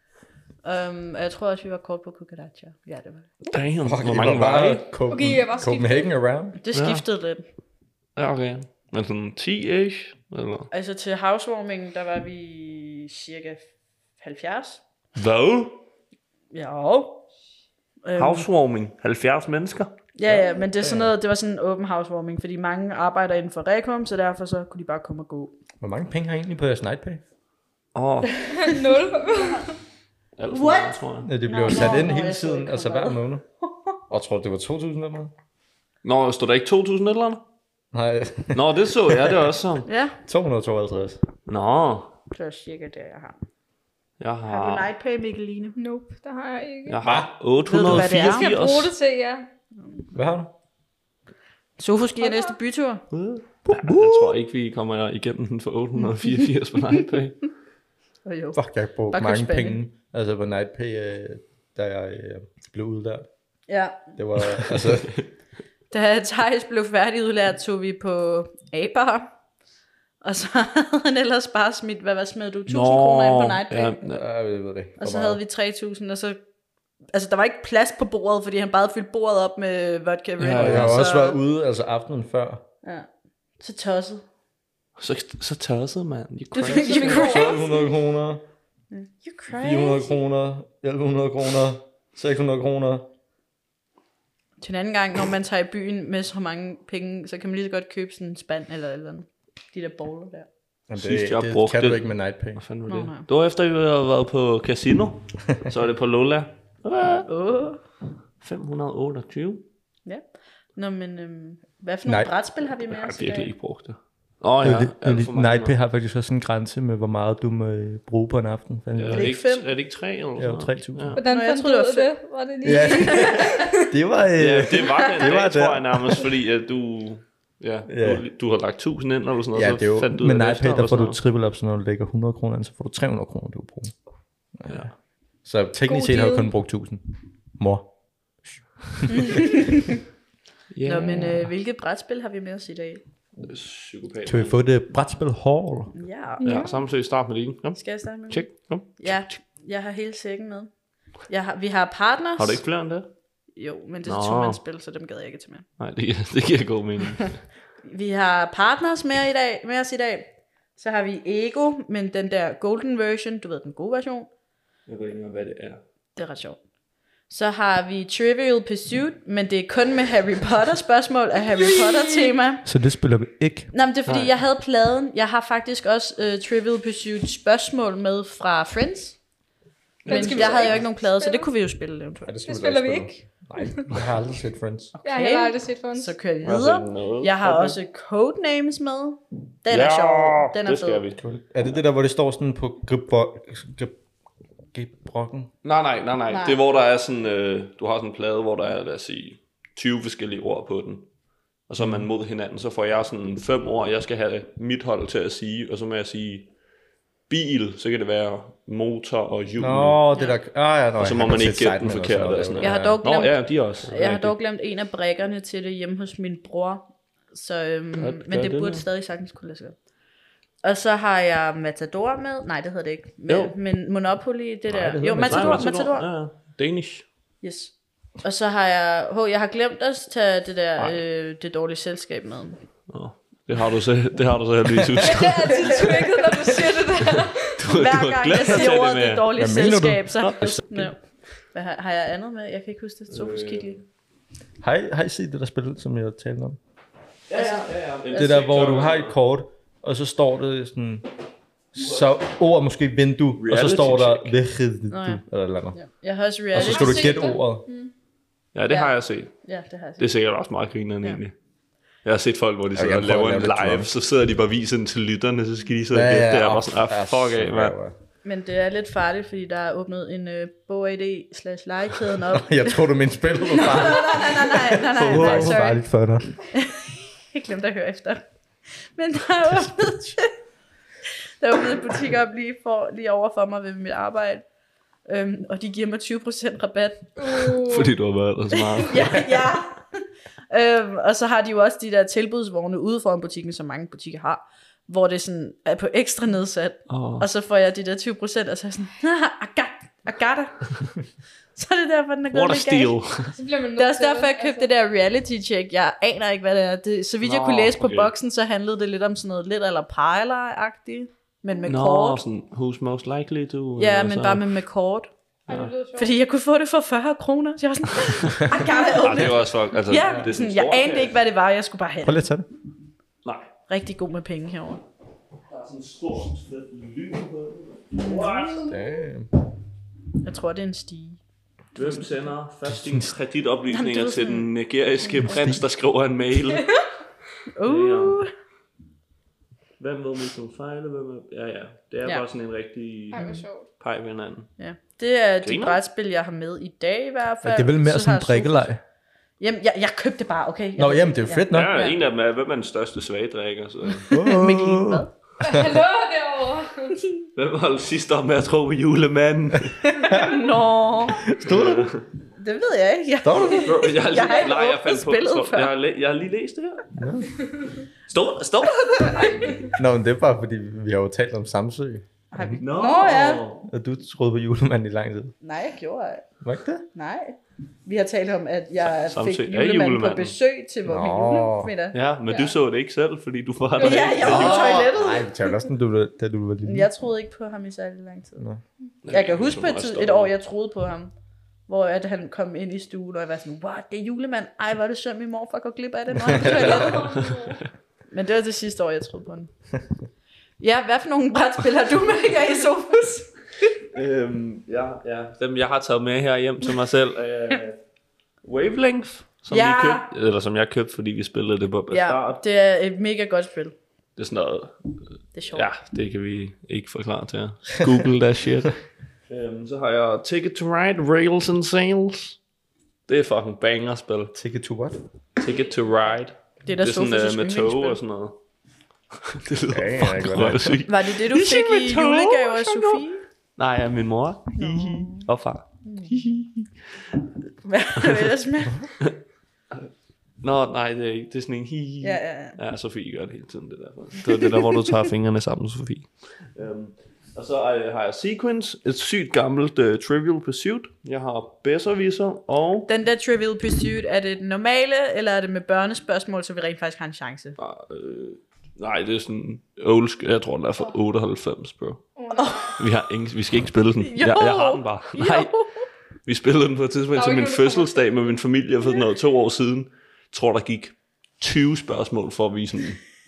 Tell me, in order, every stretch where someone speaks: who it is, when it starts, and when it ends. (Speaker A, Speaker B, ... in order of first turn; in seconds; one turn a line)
Speaker A: 0.6-3.3
Speaker B: 3.4-4.8
Speaker C: 3.8-6.6
Speaker D: 5.1-6.1
Speaker A: 6.6-7.4
Speaker B: 6.7-7.0
Speaker B: 8.2-10.7
Speaker A: 10.7-14.8
Speaker B: 15.1-15.8
Speaker A: 16.5-17.2
Speaker A: 18.0-18.5
Speaker B: 18.1-21.0
Speaker A: 20.1-25.6
Speaker C: 25.8-27.2
Speaker B: 27.9-28.4
Speaker D: 28.5-29.7
Speaker B: 30.4-31.3
Speaker A: 30.5-34.0
Speaker C: 31.2-33.4
Speaker C: 34.1-35.3
Speaker B: 36.0-37.4
Speaker C: 37.9-39.5
Speaker B: 38.5-39.9
Speaker A: 39.9-40.2
Speaker C: 40.2-41.2
Speaker B: 41.5-42.1
Speaker A: 42.3-43.4
Speaker B: 44.2-44.9
Speaker A: 44.5-45.8
Speaker D: 45.8-47.0
Speaker B: 46.9-48.9
Speaker C: 47.0-47.3
Speaker A: 47.6-48.5
Speaker D: 47.9-49.5
Speaker C: 50.1-50.5
Speaker A: 51.8-53.0
Speaker D: 52.2-52.6
Speaker B: 53.1-57.5
Speaker C: 53.6-54.4
Speaker A: 58.2-59.8
Speaker C: 58.5-63.3
Speaker A: 63.7-64.1
Speaker C: 64.1-65.2
Speaker B: 64.6-65.2
Speaker A: 65.9-69.3
Speaker A: 70.2-74.0
Speaker B: 72.7-74.2
Speaker C: 74.1-75.4
Speaker A: 75.0-76.4
Speaker A: 77.1-81.4
Speaker B: 80.4-81.0
Speaker C: 80.6-82.6
Speaker A: 83.6-84.2
Speaker B: 85.0-87.1
Speaker A: 86.5-87.5
Speaker D: 86.6-87.9
Speaker C: 87.0-88.4
Speaker A: 88.9-90.1
Speaker C: 89.5-93.1
Speaker A: 94.6-100.5
Speaker C: 100.9-102.6
Speaker B: 101.0-107.3
Speaker A: 102.9-103.3
Speaker A: 107.3-107.8
Speaker B: 108.4-109.7
Speaker A: 110.0-113.5
Speaker C: 112.0-112.3
Speaker B: 112.9-115.7
Speaker C: 114.6-119.3
Speaker B: 119.0-121.2
Speaker A: 119.1-119.7
Speaker C: 120.4-121.2
Speaker D: 121.2-123.8
Speaker A: 121.2-122.1
Speaker C: 122.6-126.2
Speaker A: 123.2-123.5
Speaker B: 124.4-131.2
Speaker C: 127.9-128.2
Speaker C: 129.5-133.9
Speaker C: 134.6-134.9
Speaker B: 134.7-134.9
Speaker C: 135.4-137.9
Speaker D: 135.9-136.5
Speaker C: 139.0-139.6
Speaker A: 139.1-140.0
Speaker B: 140.7-141.4
Speaker A: 140.8-143.0
Speaker B: 143.4-144.6
Speaker C: 144.2-145.9
Speaker A: 145.9-146.7
Speaker D: 146.4-146.8
Speaker B: 146.4-149.2
Speaker A: 147.8-150.7
Speaker A: 151.3-152.6
Speaker B: 152.4-153.1
Speaker A: 153.5-155.7
Speaker B: 154.1-154.6
Speaker B: 155.8-157.4
Speaker A: 157.8-164.3
Speaker B: 164.9-165.8
Speaker A: 166.2-166.6
Speaker A: 167.3-172.7
Speaker D: 171.6-172.3
Speaker C: 172.6-173.7
Speaker A: 173.7-179.2
Speaker B: 174.1-174.3
Speaker B: 180.0-180.8
Speaker D: 180.1-181.5
Speaker A: 180.1-182.4
Speaker C: 182.2-184.9
Speaker D: 182.4-183.9
Speaker A: 184.9-191.0
Speaker D: 185.0-186.1
Speaker B: 186.4-187.8
Speaker B: 189.7-191.2
Speaker C: 191.2-194.0
Speaker C: 194.7-195.5
Speaker B: 195.6-201.1
Speaker A: 196.3-196.6
Speaker B: 201.7-206.5
Speaker C: 201.8-202.1
Speaker B: 207.3-210.0
Speaker C: 209.6-213.0
Speaker B: 211.0-214.3
Speaker A: 212.6-219.8
Speaker B: 218.0-218.8
Speaker A: 220.6-226.1
Speaker B: 223.3-223.5
Speaker C: 224.7-225.7
Speaker B: 225.2-227.1
Speaker A: 227.4-232.6
Speaker B: 232.9-236.0
Speaker D: 235.0-237.6
Speaker A: 235.7-236.2
Speaker B: 237.5-239.3
Speaker A: 237.7-243.8
Speaker C: 239.3-240.6
Speaker B: 240.2-240.9
Speaker B: 243.1-243.8
Speaker C: 244.6-246.6
Speaker B: 247.3-249.1
Speaker A: 247.3-247.7
Speaker C: 248.1-251.1
Speaker C: 251.7-255.8
Speaker B: 251.8-252.1
Speaker B: 253.4-254.4
Speaker A: 254.9-257.4
Speaker C: 256.5-257.6
Speaker D: 256.5-257.9
Speaker B: 258.5-259.4
Speaker A: 258.7-260.1
Speaker B: 260.0-261.3
Speaker B: 262.0-267.7
Speaker C: 262.7-263.9
Speaker C: 265.9-267.9
Speaker A: 268.2-272.8
Speaker C: 272.3-276.4
Speaker A: 273.4-275.9
Speaker B: 274.9-275.6
Speaker A: 276.5-280.3
Speaker A: 281.4-284.4
Speaker A: 285.1-287.5
Speaker D: 287.2-287.9
Speaker B: 287.6-289.3
Speaker A: 288.6-289.9
Speaker A: 290.5-300.9
Speaker B: 296.9-297.2
Speaker A: 301.5-303.0
Speaker B: 302.3-303.4
Speaker D: 303.3-304.7
Speaker A: 303.8-312.2
Speaker B: 307.2-308.1
Speaker B: 311.6-314.5
Speaker A: 313.8-315.1
Speaker D: 315.5-316.1
Speaker A: 315.9-322.2
Speaker B: 319.0-321.2
Speaker C: 322.0-322.5
Speaker B: 323.2-323.5
Speaker A: 323.7-324.8
Speaker B: 325.5-328.7
Speaker A: 327.9-328.7
Speaker C: 328.6-329.3
Speaker A: 330.2-331.2
Speaker A: 331.7-332.1
Speaker B: 331.7-336.8
Speaker C: 332.6-333.1
Speaker A: 333.7-334.5
Speaker C: 335.1-335.6
Speaker A: 337.5-338.3
Speaker B: 337.6-338.2
Speaker B: 339.8-344.5
Speaker D: 343.1-343.6
Speaker A: 344.6-348.7
Speaker B: 345.4-345.8
Speaker C: 347.4-348.8
Speaker A: 349.4-351.9
Speaker C: 350.8-351.8
Speaker B: 351.5-354.1
Speaker A: 353.9-355.1
Speaker C: 354.1-355.8
Speaker D: 355.4-356.9
Speaker B: 357.3-360.1
Speaker A: 359.8-361.3
Speaker C: 360.1-360.4
Speaker C: 361.2-361.9
Speaker B: 361.2-362.1
Speaker A: 362.4-365.7
Speaker C: 363.2-363.7
Speaker B: 363.3-366.9
Speaker C: 366.9-367.4
Speaker B: 368.1-369.7
Speaker D: 369.1-369.5
Speaker A: 369.1-369.6
Speaker C: 369.7-372.6
Speaker A: 372.3-373.5
Speaker B: 372.6-373.7
Speaker C: 373.7-375.3
Speaker A: 375.4-376.3
Speaker C: 376.4-376.9
Speaker A: 376.9-382.5
Speaker B: 378.9-380.4
Speaker C: 380.8-381.7
Speaker B: 381.9-384.8
Speaker A: 383.8-385.3
Speaker D: 383.8-384.5
Speaker C: 384.2-386.9
Speaker A: 386.6-388.4
Speaker B: 389.0-390.3
Speaker A: 389.1-391.1
Speaker A: 391.7-397.3
Speaker D: 396.3-397.6
Speaker C: 396.3-396.8
Speaker B: 396.7-397.6
Speaker A: 398.1-399.5
Speaker A: 400.6-403.7
Speaker B: 403.9-407.8
Speaker B: 408.4-412.4
Speaker A: 409.5-410.1
Speaker A: 411.9-413.7
Speaker B: 414.2-414.8
Speaker A: 415.3-415.7
Speaker B: 415.5-422.4
Speaker B: 423.1-424.3
Speaker C: 424.3-425.0
Speaker B: 425.4-428.4
Speaker A: 426.6-428.0
Speaker B: 429.2-433.0
Speaker C: 429.7-430.8
Speaker A: 430.9-433.2
Speaker B: 433.6-436.7
Speaker A: 434.6-435.3
Speaker A: 435.8-436.2
Speaker A: 437.6-438.9
Speaker B: 438.0-438.2
Speaker B: 440.4-452.9
Speaker A: 442.0-442.6
Speaker A: 452.9-457.6
Speaker B: 457.6-462.0
Speaker D: 462.1-462.8
Speaker A: 462.4-462.8
Speaker B: 462.8-465.6
Speaker A: 464.0-465.9
Speaker B: 466.2-473.0
Speaker D: 467.1-468.1